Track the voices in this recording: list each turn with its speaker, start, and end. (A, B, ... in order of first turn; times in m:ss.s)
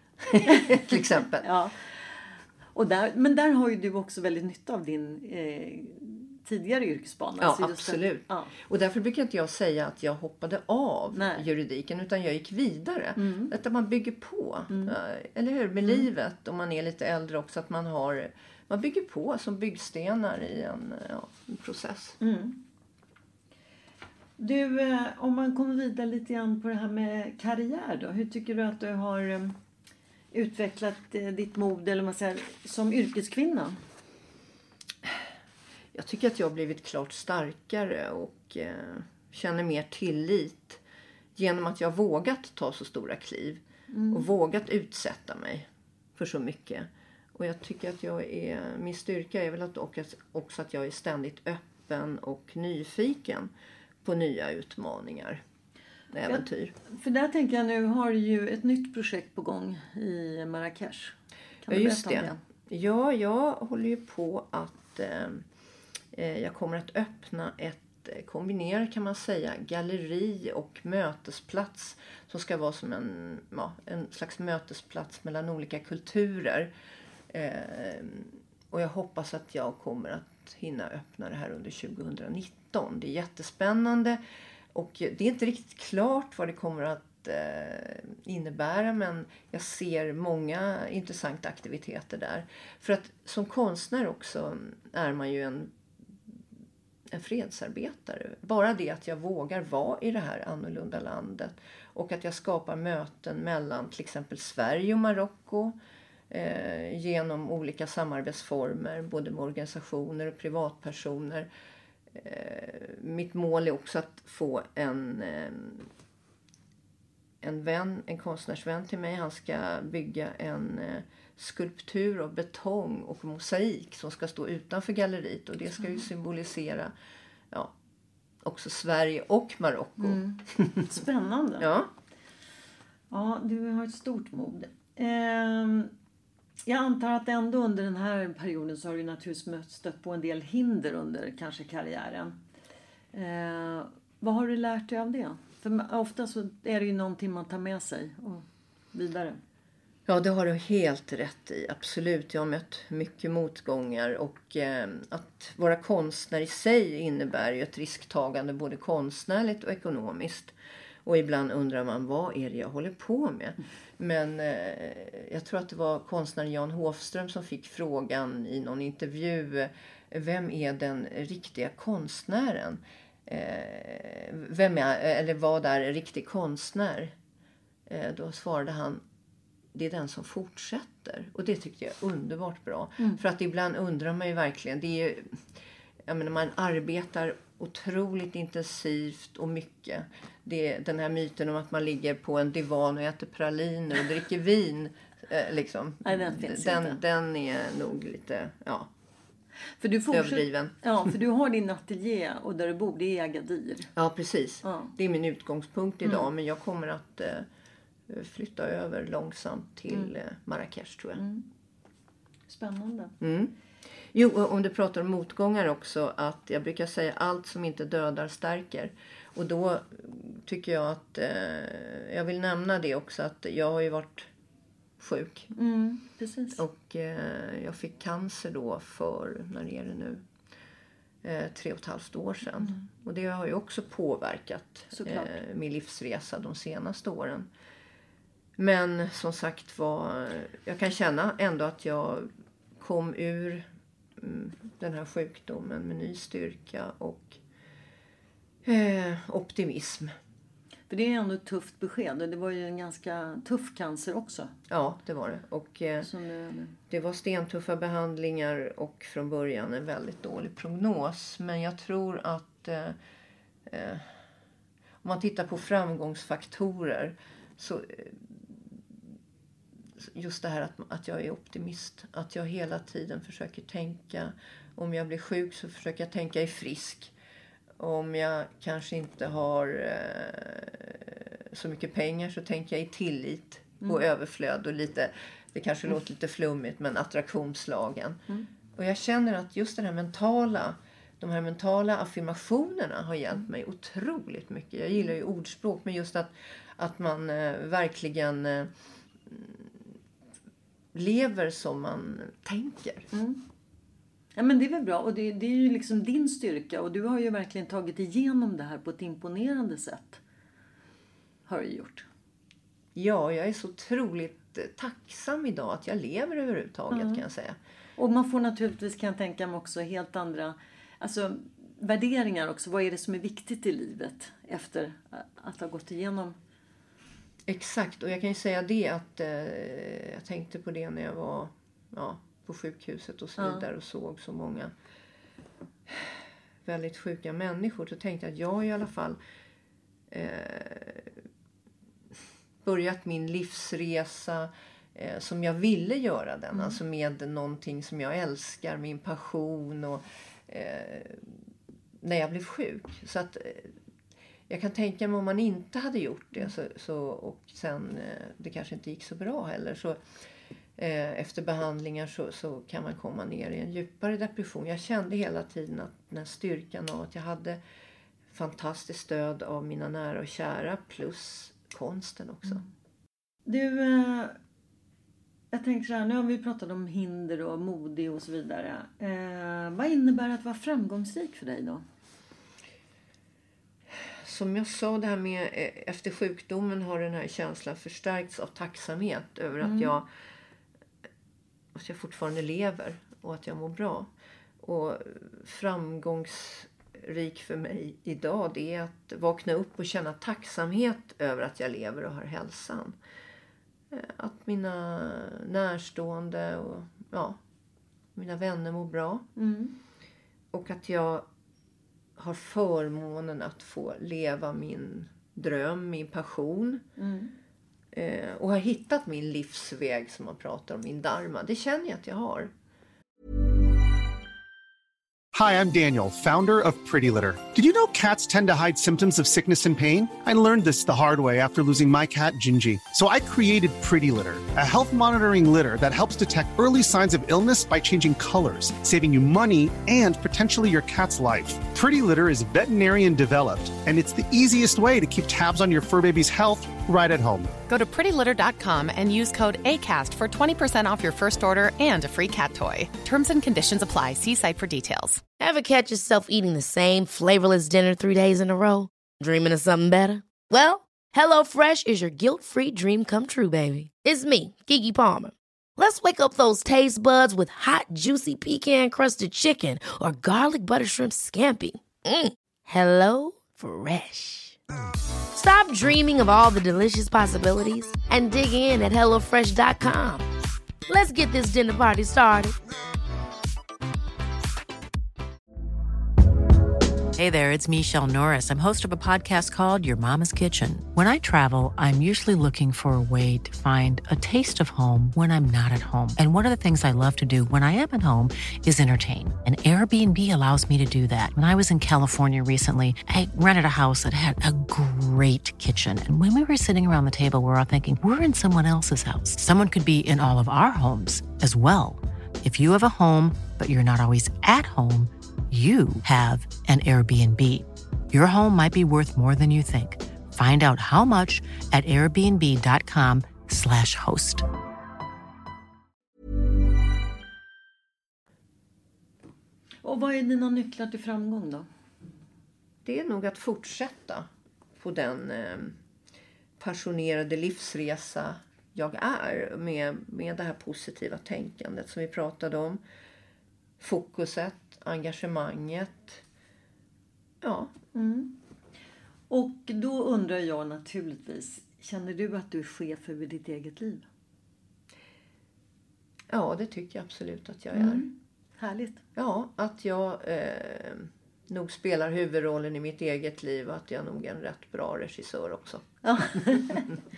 0:00.2-0:01.5 A
0:00.4-0:08.5 B
0:07.4-0:22.2 A
0:11.1-0:11.5 B
0:13.2-0:13.5 B
0:14.7-0:15.0 B
0:22.2-0:22.6 B
0:24.4-0:29.6 B
0:30.3-0:33.8 B
0:35.9-0:40.8 A
0:41.4-0:53.5 A
0:43.9-0:44.2 B
0:54.0-0:55.4 A
0:56.1-0:56.7 A
0:56.3-1:02.4 B
1:01.7-1:05.4 A
1:06.1-1:16.7 A
1:17.3-1:24.2 A
1:24.7-1:35.7 A
1:37.1-1:45.8 A
1:46.3-1:51.5 A
1:52.1-1:55.9 A
1:57.4-2:06.9 A
2:08.4-2:10.9 A
2:10.0-2:11.7 B
2:11.6-2:11.9 A
2:13.1-2:15.9 B
2:16.6-2:22.4 B
2:23.1-2:29.4 B
2:30.1-2:40.5 A
2:41.0-2:57.1 A
2:57.9-2:59.0 A
2:59.7-3:18.9 A
3:16.0-3:17.0 B
3:19.8-3:23.9 B
3:20.1-3:20.7 A
3:24.0-3:27.5 A
3:24.6-3:24.9 B
3:28.1-3:31.2 A
3:31.2-3:31.4 B
3:32.5-3:33.1 B
3:33.2-3:33.5 A
3:34.1-3:44.3 A
3:45.0-3:45.5 A
3:45.5-3:46.6 B
3:46.6-3:50.2 A
3:51.2-3:57.5 A
3:54.9-3:55.4 B
3:58.6-4:03.6 A
4:04.2-4:07.4 A
4:08.6-4:10.1 A
4:10.9-4:14.5 B
4:14.7-4:16.1 A
4:16.0-4:16.8 B
4:16.9-4:23.0 A
4:23.6-4:24.2 A
4:25.0-4:28.7 A
4:30.0-4:37.1 A
4:37.8-4:48.2 A
4:48.8-4:58.7 A
4:59.2-4:59.9 A
5:00.9-5:03.1 A
5:03.1-5:03.4 B
5:04.3-5:10.2 B
5:11.5-5:12.0 B
5:12.9-5:17.6 A
5:16.9-5:17.2 B
5:18.0-5:26.4 B
5:27.5-5:34.7 A
5:33.4-5:33.6 B
5:35.9-5:39.2 A
5:40.1-5:41.2 A
5:42.6-5:51.4 A
5:46.5-5:46.8 B
5:52.0-5:53.7 A
5:54.5-6:00.0 A
6:00.8-6:07.6 A
6:08.3-6:12.6 A
6:13.4-6:14.4 B
6:15.5-6:21.8 B
6:24.0-6:30.1 A
6:29.6-6:29.9 B
6:31.7-6:34.1 A
6:34.6-6:43.0 A
6:43.9-6:47.4 A
6:48.1-6:49.3 A
6:49.4-6:49.8 B
6:50.5-6:51.2 A
6:52.2-6:56.9 A
6:57.0-6:57.3 B
6:57.9-7:02.5 A
7:05.3-7:27.6 C
7:27.7-7:35.2 D
7:35.4-7:54.6 E
7:55.3-8:00.3 E
8:00.9-8:02.5 E
8:07.2-8:44.4 F
8:49.8-8:51.6 B
8:52.8-8:54.3 A
8:54.8-8:55.8 A
8:56.6-9:02.8 A
9:03.8-9:06.2 A
9:07.4-9:07.7 A
9:07.9-9:08.4 B
9:09.3-9:14.1 B
9:16.3-9:18.0 A
9:17.7-9:19.0 B
9:19.2-9:26.9 A
9:26.0-9:27.0 B